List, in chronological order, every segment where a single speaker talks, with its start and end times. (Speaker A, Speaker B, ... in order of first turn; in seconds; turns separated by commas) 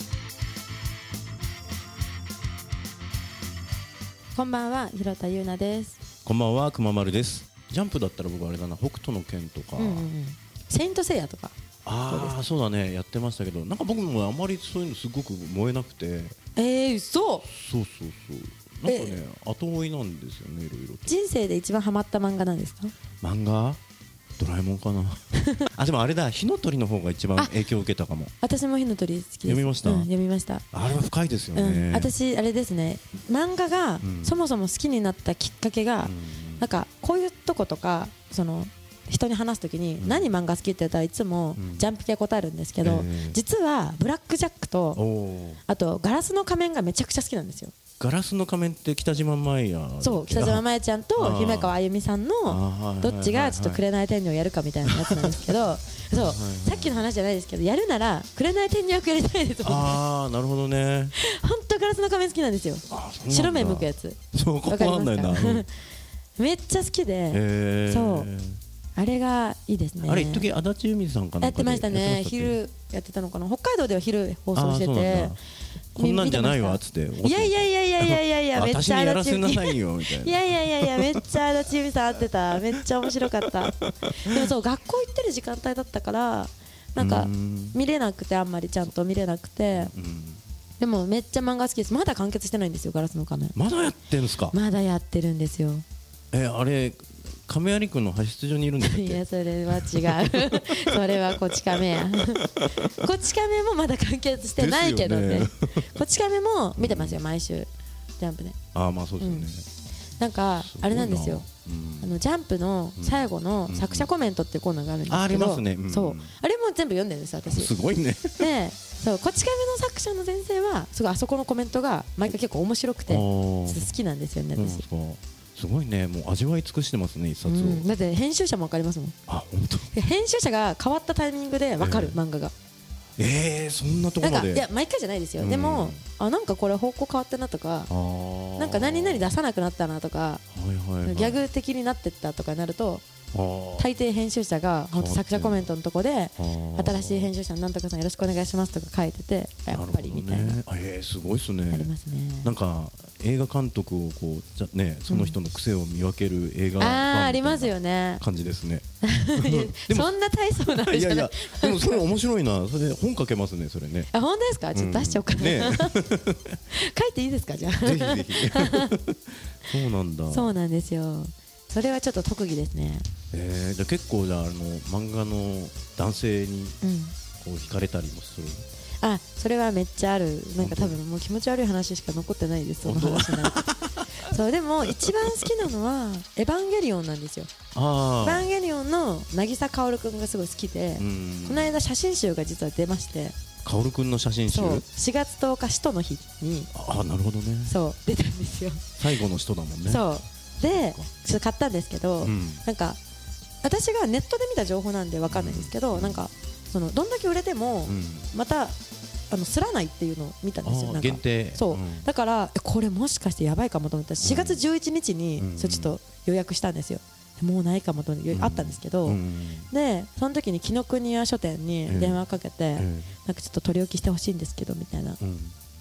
Speaker A: 4.3-6.0, Speaker B: 6.2-10.1, Speaker A: 9.8-11.6, Speaker B: 11.8-16.4, Speaker A: 12.1-12.3, Speaker A: 16.6-17.5, Speaker B: 17.5-21.1, Speaker A: 18.9-19.2, Speaker A: 21.1-22.9, Speaker B: 23.2-23.8, Speaker B: 24.4-28.3, Speaker A: 25.4-25.7, Speaker A: 28.4-30.6, Speaker B: 29.5-30.1, Speaker B: 30.7-32.1, Speaker A: 31.6-45.0, Speaker B: 34.0-34.4, Speaker B: 36.0-36.7, Speaker B: 40.0-40.3, Speaker B: 41.6-41.9, Speaker B: 42.8-43.4, Speaker B: 45.0-45.6, Speaker A: 45.7-47.7, Speaker B: 48.0-50.6, Speaker A: 50.0-60.0, Speaker B: 51.2-51.7, Speaker B: 52.5-53.8, Speaker B: 54.9-55.3, Speaker B: 56.1-57.0, Speaker B: 59.6-61.1, Speaker A: 61.2-65.7, Speaker B: 62.9-65.7, Speaker A: 66.4-68.3, Speaker B: 67.3-68.6, Speaker A: 69.0-70.5, Speaker B: 70.0-72.6, Speaker A: 71.4-75.3, Speaker B: 74.5-75.4, Speaker B: 76.0-81.2, Speaker A: 76.0-89.9, Speaker B: 83.4-84.4, Speaker B: 87.0-87.8, Speaker B: 89.7-90.4, Speaker A: 90.8-93.6, Speaker B: 93.5-94.6, Speaker A: 94.5-95.8, Speaker B: 96.3-102.9, Speaker A: 98.8-108.6, Speaker B: 104.6-105.9, Speaker B: 106.8-107.2, Speaker B: 108.7-109.6, Speaker A: 109.2-109.5, Speaker A: 110.2-111.5, Speaker B: 110.6-112.2, Speaker A: 112.0-117.7, Speaker B: 113.0-114.1, Speaker B: 115.1-116.3, Speaker B: 117.5-118.5, Speaker A: 118.4-124.8, Speaker B: 123.1-123.9, Speaker B: 124.5-127.9, Speaker A: 127.4-129.2, Speaker B: 129.3-129.9, Speaker A: 129.9-132.5, Speaker B: 131.8-132.2, Speaker B: 133.2-134.7, Speaker A: 134.2-137.9, Speaker B: 135.4-136.0, Speaker B: 137.9-139.4, Speaker A: 138.6-140.4, Speaker B: 140.5-141.4, Speaker A: 141.0-143.0, Speaker B: 143.3-143.9, Speaker A: 143.8-150.6, Speaker B: 144.9-145.7, Speaker B: 146.4-147.3, Speaker B: 149.7-151.9, Speaker A: 151.7-152.5, Speaker B: 152.4-164.1, Speaker A: 155.1-155.4, Speaker A: 156.8-158.2, Speaker A: 159.0-162.0, Speaker A: 164.1-166.1, Speaker B: 164.7-166.6, Speaker A: 166.7-169.0, Speaker B: 167.8-170.5, Speaker A: 170.3-173.1, Speaker B: 173.3-176.8, Speaker A: 176.8-177.2, Speaker B: 177.4-178.7, Speaker A: 179.0-183.7, Speaker B: 180.6-181.0, Speaker B: 182.8-184.1, Speaker A: 184.2-187.5, Speaker B: 187.8-188.5, Speaker A: 188.2-193.4, Speaker B: 191.0-191.8, Speaker B: 193.6-194.9, Speaker A: 194.5-196.7, Speaker B: 196.7-197.7, Speaker A: 197.7-198.9, Speaker B: 199.0-200.0, Speaker A: 199.9-203.0, Speaker B: 200.6-201.1, Speaker B: 202.2-202.6, Speaker A: 203.6-208.8, Speaker B: 205.3-206.2, Speaker B: 207.9-208.3, Speaker A: 209.3-219.2, Speaker B: 210.7-212.1, Speaker B: 214.2-214.6, Speaker B: 215.4-215.9, Speaker B: 218.3-219.7, Speaker A: 219.7-225.2, Speaker B: 221.9-222.2, Speaker B: 222.8-223.1, Speaker B: 225.2-225.6